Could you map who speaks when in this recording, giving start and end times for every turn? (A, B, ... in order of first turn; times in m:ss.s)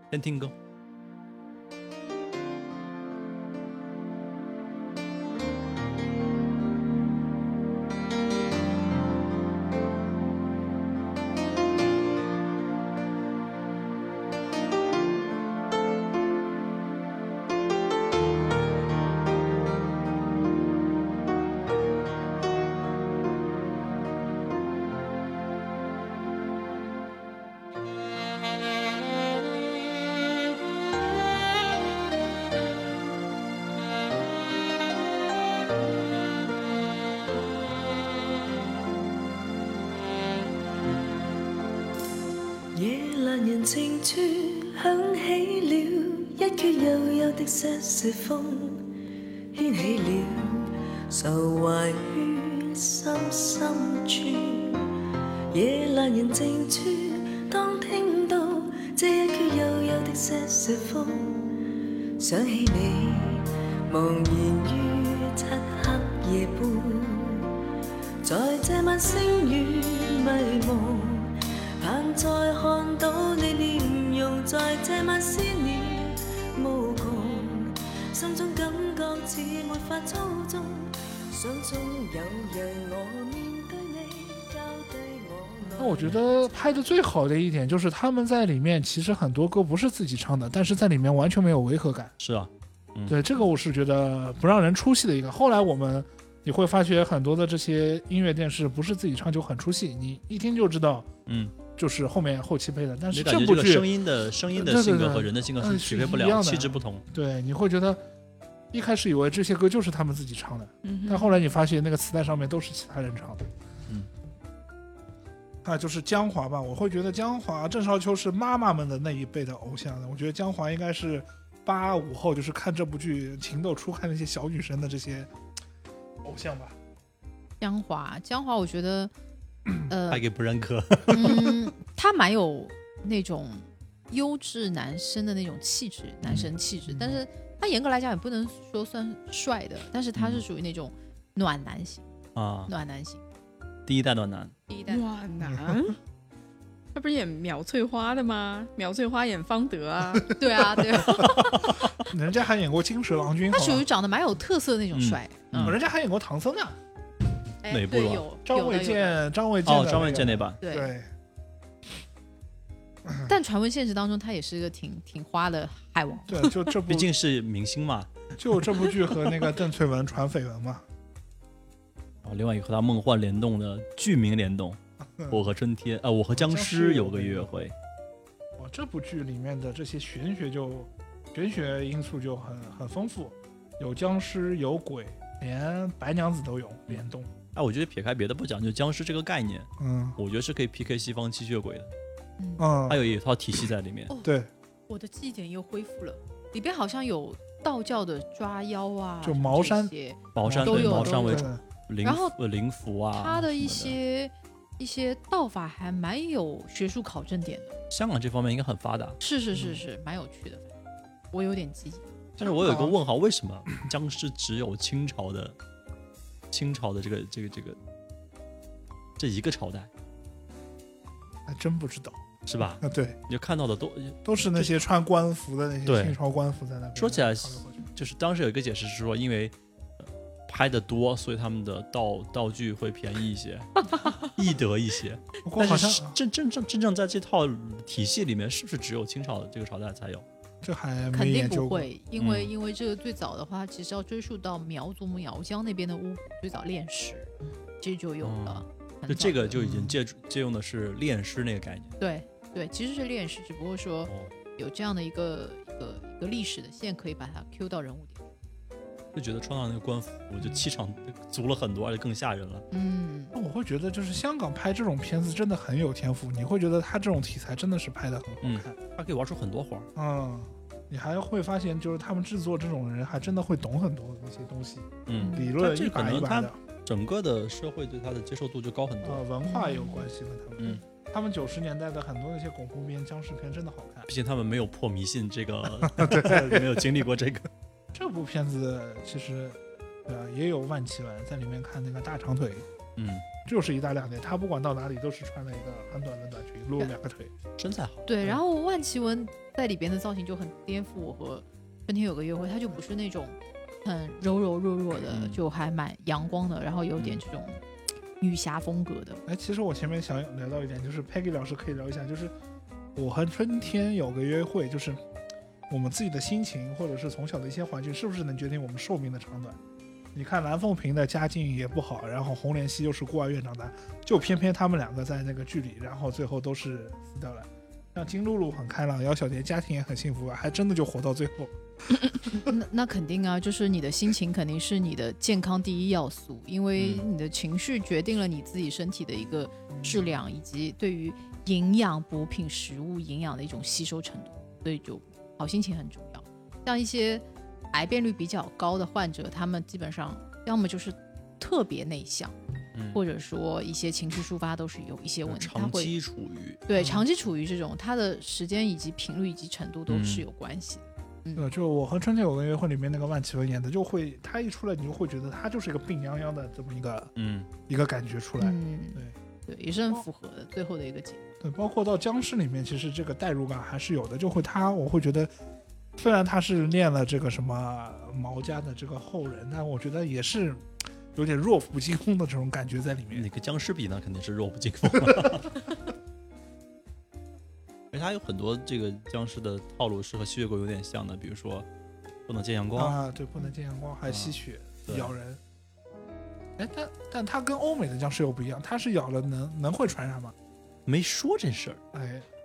0:00.1-0:00.5 A
0:42.7-0:48.9 B
0:49.5-0:54.9 B
0:55.5-1:01.6 B
1:02.2-1:07.6 B
1:08.2-1:26.2 B
1:25.8-1:32.1 C
1:32.2-1:33.2 A
1:33.1-1:41.1 C
1:41.3-1:41.5 A
1:41.8-1:43.9 C
1:43.1-1:47.0 A
1:44.5-1:48.0 C
1:48.7-1:53.5 C
1:50.8-1:51.4 D
1:55.6-2:05.3 C
2:06.2-2:06.8 C
2:07.6-2:09.1 E
2:09.9-2:10.2 E
2:10.1-2:11.3 A
2:11.1-2:22.1 E
2:16.9-2:17.2 C
2:20.2-2:20.4 A
2:22.4-2:22.7 A
2:22.7-2:23.2 E
2:23.9-2:24.5 A
2:24.7-2:25.0 E
2:24.9-2:26.0 D
2:25.4-2:25.8 C
2:27.0-2:30.4 D
2:30.4-2:31.7 E
2:31.0-2:31.4 C
2:31.2-2:32.0 A
2:32.0-2:33.9 C
2:33.5-2:35.7 E
2:34.9-2:35.8 A
2:35.6-2:36.8 C
2:37.6-2:39.2 E
2:37.7-2:38.3 A
2:38.5-2:41.1 C
2:39.6-2:40.6 A
2:40.6-2:40.9 E
2:43.1-2:43.3 C
2:43.3-2:46.5 E
2:46.3-2:47.1 C
2:46.9-2:48.1 A
2:48.4-2:50.8 C
2:52.2-2:54.8 A
2:55.0-2:55.4 C
2:55.3-2:57.8 A
2:56.3-2:57.6 C
2:58.6-3:07.3 C
3:06.9-3:11.9 A
3:09.8-3:10.2 C
3:12.4-3:12.7 E
3:12.6-3:13.0 C
3:12.9-3:14.1 A
3:14.2-3:14.5 C
3:14.9-3:21.5 E
3:19.2-3:21.6 C
3:20.3-3:24.0 A
3:22.0-3:22.4 E
3:23.1-3:27.8 E
3:27.9-3:29.2 A
3:29.2-3:30.7 E
3:29.6-3:29.8 C
3:31.3-3:32.0 E
3:32.4-3:35.6 A
3:32.6-3:33.0 C
3:36.5-3:37.8 A
3:39.2-3:39.9 A
3:41.5-3:43.2 C
3:42.5-3:44.7 A
3:44.2-3:47.8 C
3:45.9-3:46.2 A
3:47.0-3:53.7 A
3:54.2-4:00.3 A
3:55.4-3:56.2 C
4:00.6-4:01.9 C
4:01.1-4:09.9 E
4:02.2-4:02.5 A
4:08.2-4:11.9 A
4:12.0-4:18.2 E
4:14.1-4:14.3 A
4:19.1-4:22.7 A
4:22.7-4:23.4 E
4:23.3-4:28.8 C
4:28.4-4:29.9 A
4:30.0-4:36.6 C
4:35.1-4:39.2 A
4:35.2-4:35.5 E
4:39.0-4:44.1 C
4:39.4-4:40.1 E
4:44.1-4:47.5 A
4:45.8-4:46.8 C
4:47.9-4:52.7 C
4:53.0-4:53.2 A
4:53.4-4:57.3 C
4:57.6-4:58.4 A
4:58.1-5:07.6 E
5:05.0-5:05.4 A
5:07.0-5:07.2 A
5:08.2-5:09.2 E
5:09.3-5:12.3 C
5:13.0-5:15.0 C
5:15.7-5:19.6 C
5:20.1-5:31.5 C
5:32.3-5:52.4 E
5:36.8-5:37.1 A
5:52.8-5:53.0 A
5:52.9-5:55.9 E
5:55.3-5:56.6 A
5:56.7-6:01.5 E
5:56.8-5:57.0 C
5:59.9-6:00.3 A
6:01.4-6:07.1 C
6:07.2-6:07.5 A
6:07.7-6:09.2 C
6:08.4-6:11.2 E
6:11.4-6:15.3 C
6:16.0-6:23.3 C
6:23.1-6:25.6 A
6:25.0-6:25.4 C
6:27.9-6:31.7 A
6:32.3-6:33.0 A
6:32.8-6:35.4 C
6:34.1-6:35.1 A
6:36.6-6:40.4 C
6:40.9-6:41.8 A
6:41.9-6:42.3 C